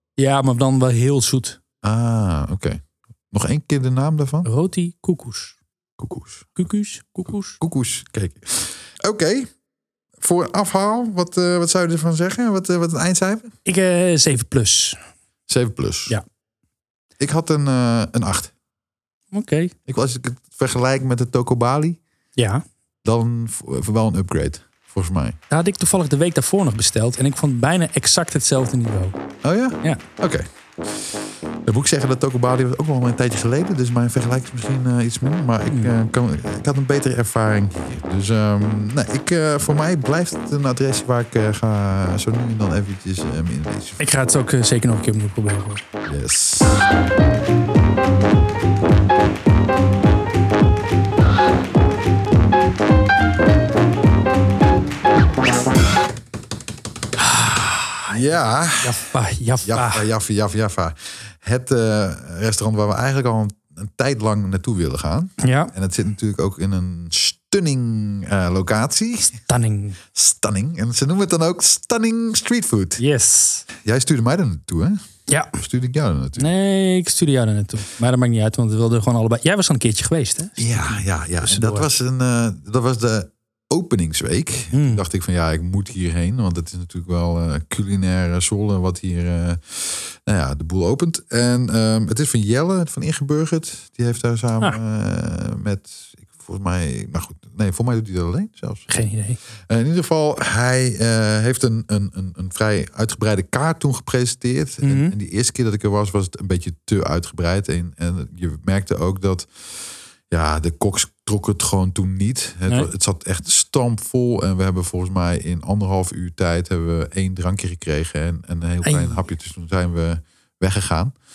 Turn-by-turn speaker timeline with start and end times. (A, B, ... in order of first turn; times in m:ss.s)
0:00.2-0:01.6 A
0:01.8-0:04.5 B
0:04.4-0:05.6 A
0:06.0-0:06.6 B
0:06.6-0:07.6 A
0:07.6-0:09.5 B
0:10.2-0:13.5 B
0:13.7-0:15.0 A
0:15.5-0:16.2 B
0:17.2-0:18.5 B
0:19.3-0:19.7 A
0:19.9-0:22.0 B
0:22.4-0:22.6 A
0:23.0-0:25.4 B
0:25.5-0:29.2 A
0:29.4-0:30.5 B
0:31.7-0:44.0 B
0:44.0-0:45.8 A
0:46.1-0:46.8 B
0:57.2-0:58.2 A
0:58.1-0:59.0 B
0:58.8-1:00.1 A
0:59.6-1:09.4 B
1:05.4-1:05.7 A
1:09.5-1:10.0 A
1:10.1-1:13.0 B
1:13.0-1:13.6 A
1:13.8-1:15.0 B
1:15.3-1:15.6 A
1:15.6-1:16.5 B
1:16.4-1:21.9 A
1:20.6-1:38.9 B
1:24.7-1:25.0 A
1:38.9-1:39.4 A
1:39.7-1:49.5 B
1:44.8-1:45.2 A
1:50.3-2:01.1 B
1:58.8-1:59.2 A